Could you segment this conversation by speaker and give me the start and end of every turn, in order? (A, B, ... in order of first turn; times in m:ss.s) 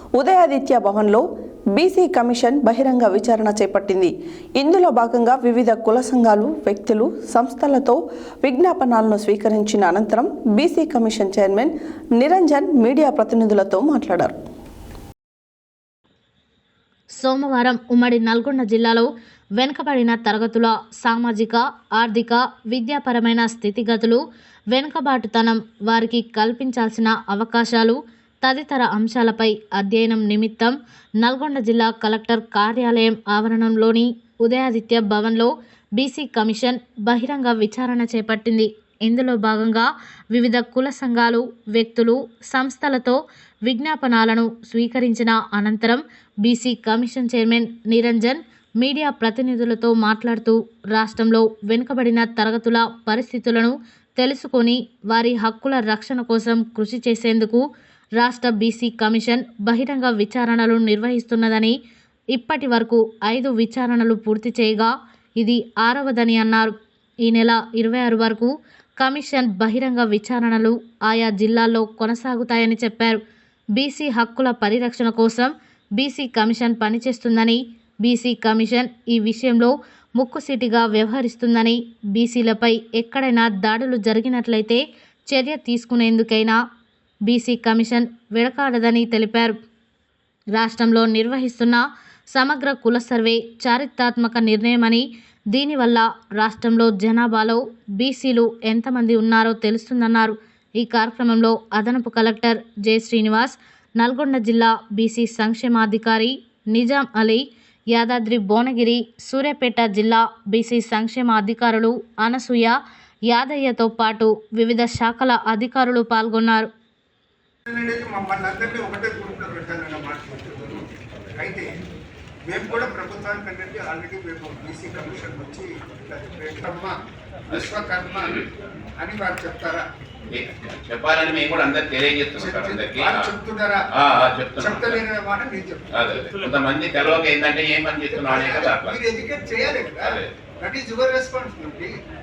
0:00.2-0:14.4 A
0:17.2-0:24.2 B
0:24.7-0:57.6 B
0:58.2-1:01.7 B
1:02.3-1:13.2 B
1:13.8-1:26.6 B
1:27.2-1:29.5 B
1:30.6-1:52.8 B
1:53.3-1:56.7 B
1:57.7-2:00.8 C
2:01.4-2:01.7 C
2:02.5-2:06.9 C
2:07.5-2:08.4 C
2:09.0-2:09.8 C
2:10.3-2:13.3 D
2:12.4-2:13.8 C
2:14.0-2:15.0 D
2:14.6-2:15.9 C
2:15.9-2:19.0 D
2:18.1-2:21.9 C
2:20.0-2:20.3 D